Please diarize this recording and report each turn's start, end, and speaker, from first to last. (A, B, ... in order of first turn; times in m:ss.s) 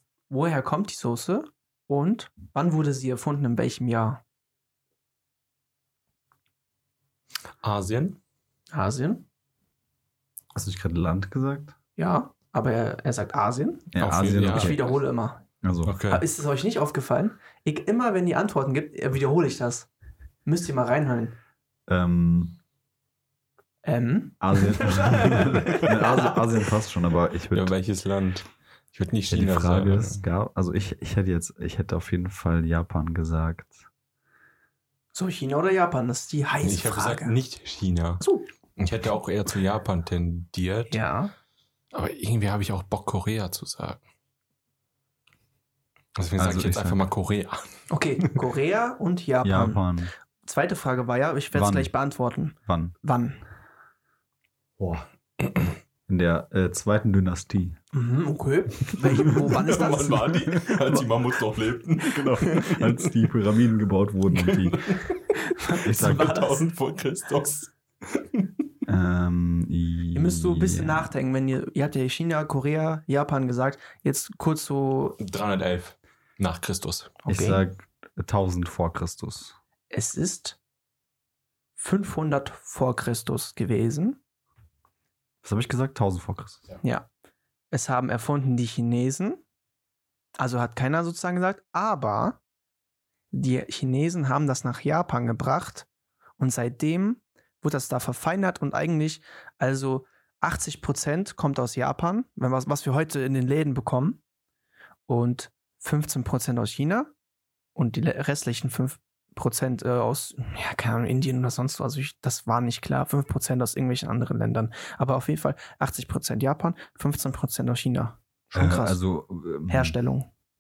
0:00.3-0:04.2 A
0:07.6-0:08.2 B
0:08.7-0:09.2 A
0:10.5-0:11.8 C
0:12.0-0:13.9 A
0:13.9-0:14.9 C
0:14.0-0:14.8 B
0:14.4-0:15.4 A
0:15.6-0:16.0 C
0:15.9-0:16.2 B
0:16.1-0:19.9 A
0:20.5-0:21.4 A
0:21.9-0:22.6 C
0:23.8-0:26.4 A
0:24.4-0:27.7 C
0:27.5-0:30.2 B
0:29.3-0:33.8 C
0:35.1-0:37.4 A
0:36.6-0:38.2 B
0:38.2-0:38.5 A
0:38.8-0:41.0 B
0:40.9-0:41.3 A
0:41.9-0:44.0 B
0:46.2-0:48.4 B
0:46.4-0:47.0 C
0:47.9-0:49.8 A
0:49.4-0:50.1 C
0:50.4-0:53.4 A
0:51.5-0:51.9 C
0:52.7-0:53.0 C
0:54.8-0:55.1 C
0:56.1-0:57.8 C
0:57.9-1:01.0 A
0:59.2-1:03.1 B
1:02.1-1:04.8 C
1:02.4-1:02.8 A
1:04.3-1:05.2 B
1:05.4-1:06.6 A
1:05.8-1:06.3 C
1:05.9-1:08.5 B
1:08.9-1:11.1 C
1:10.1-1:15.2 A
1:15.2-1:17.2 B
1:17.2-1:17.6 A
1:17.3-1:19.6 C
1:19.9-1:20.6 A
1:21.8-1:24.2 A
1:25.4-1:26.7 C
1:26.8-1:27.1 A
1:27.7-1:29.4 A
1:30.4-1:32.4 A
1:33.3-1:35.9 A
1:36.4-1:44.2 A
1:45.1-1:47.1 A
1:47.8-1:59.0 A
1:58.5-2:00.0 C
1:59.7-2:00.3 A